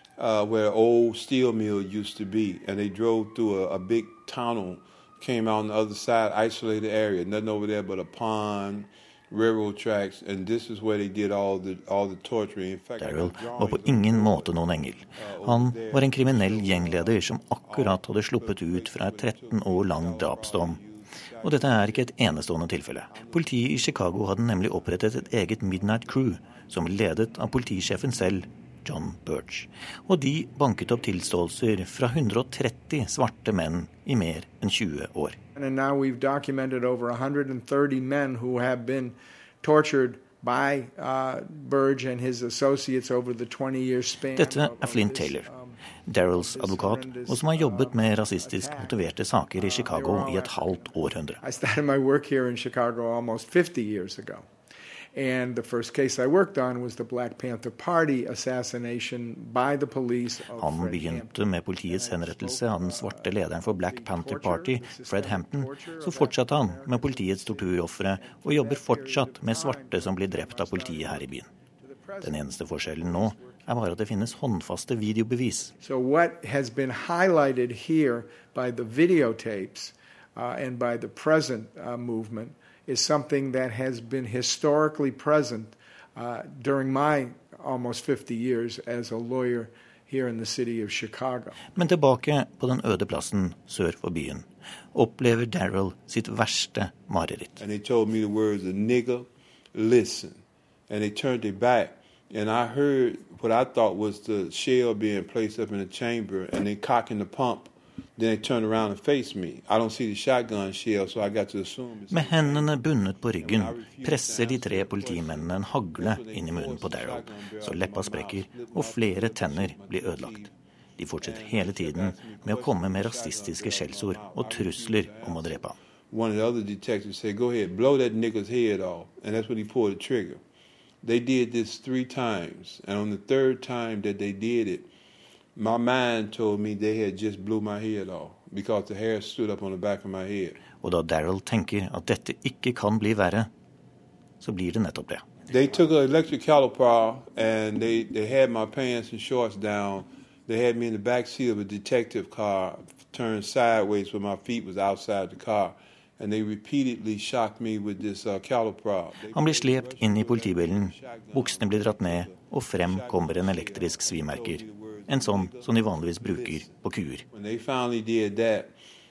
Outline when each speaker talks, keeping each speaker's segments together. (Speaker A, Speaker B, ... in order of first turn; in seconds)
Speaker A: 0.2-22.4, 23.1-24.2, 24.8-26.6, 97.6-120.5, 121.2-130.4, 131.0-134.9, 135.6-140.6, 145.5-168.8
Speaker B: 13.0-20.8, 21.4-35.4, 44.3-51.4, 60.5-71.5, 72.2-75.7, 91.7-97.6, 112.1-125.8, 140.7-143.5, 144.4-145.3, 159.3-167.2
Speaker C: 35.5-45.8, 46.4-48.9, 49.5-54.5, 55.1-61.3, 61.9-73.6, 75.8-91.5